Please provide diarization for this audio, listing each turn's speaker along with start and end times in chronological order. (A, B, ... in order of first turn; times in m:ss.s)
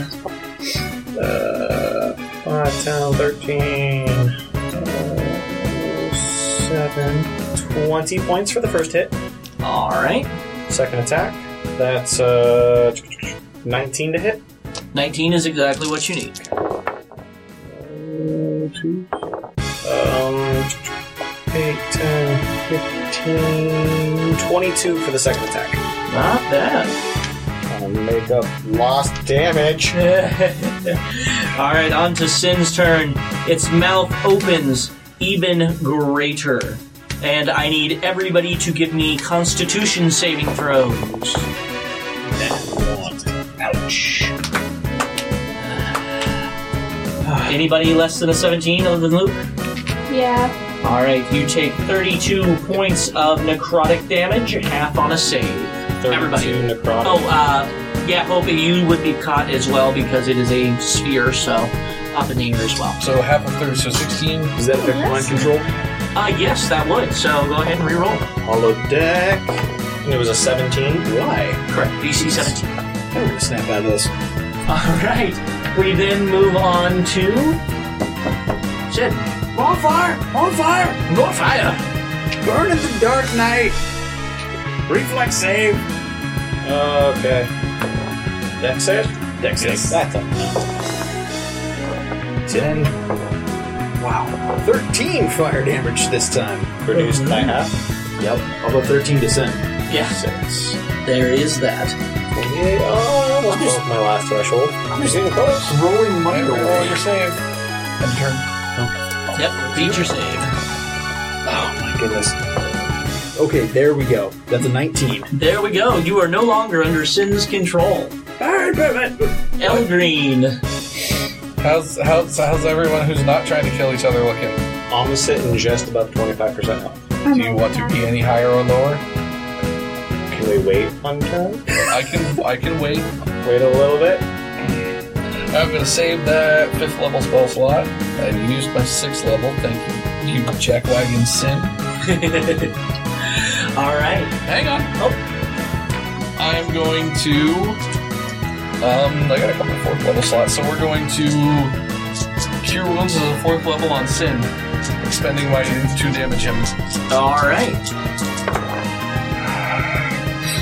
0:01.1-0:09.1 A
0:09.6-0:10.3 B
0:10.7-0:14.4 A
0:14.9-0:16.4 B
0:17.6-0:19.1 A
0:19.8-0:20.7 A
0:21.5-0:25.8 A
0:26.1-0:27.0 B
0:27.7-0:30.0 A
0:29.9-0:41.5 B
0:42.2-0:44.3 C
0:47.2-0:47.6 C
0:47.4-0:49.4 B
0:50.1-0:50.5 D
0:50.8-1:03.0 B
0:56.0-0:57.4 A
1:03.0-1:04.5 E
1:04.5-1:05.7 C
1:04.7-1:05.5 D
1:06.1-1:08.3 B
1:08.4-1:09.6 C
1:10.0-1:11.1 A
1:11.0-1:11.6 C
1:11.7-1:12.7 B
1:12.2-1:12.5 C
1:13.1-1:14.1 C
1:14.7-1:17.6 B
1:18.9-1:19.3 B
1:19.5-1:21.0 C
1:21.1-1:21.8 B
1:22.4-1:23.8 C
1:24.9-1:25.8 C
1:26.6-1:27.5 A
1:28.6-1:30.6 A
1:29.4-1:30.0 C
1:32.5-1:32.9 C
1:34.0-1:36.8 C
1:36.8-1:37.8 A
1:36.9-1:37.5 B
1:38.2-1:40.5 C
1:39.9-1:40.2 B
1:40.0-1:40.3 A
1:41.0-1:41.9 B
1:42.3-1:45.8 A
1:43.5-1:43.8 B
1:45.6-1:47.0 C
1:46.3-1:47.4 E
1:48.0-1:48.5 E
1:49.3-1:50.5 B
1:49.6-1:49.9 C
1:51.4-1:52.4 C
1:53.4-1:55.3 C
1:55.3-1:58.1 B
1:58.4-1:59.3 C
1:59.6-2:00.6 B
2:01.6-2:04.6 E
2:04.9-2:07.0 A
2:07.2-2:08.0 D
2:07.3-2:09.0 E
2:10.3-2:11.7 A
2:11.8-2:13.1 E
2:13.4-2:14.3 A
2:15.5-2:21.7 E
2:22.0-2:22.8 B
2:23.3-2:24.4 B
2:24.4-2:24.9 E
2:26.4-2:27.8 E
2:28.8-2:31.8 E
2:32.6-2:36.7 E
2:37.1-2:37.8 B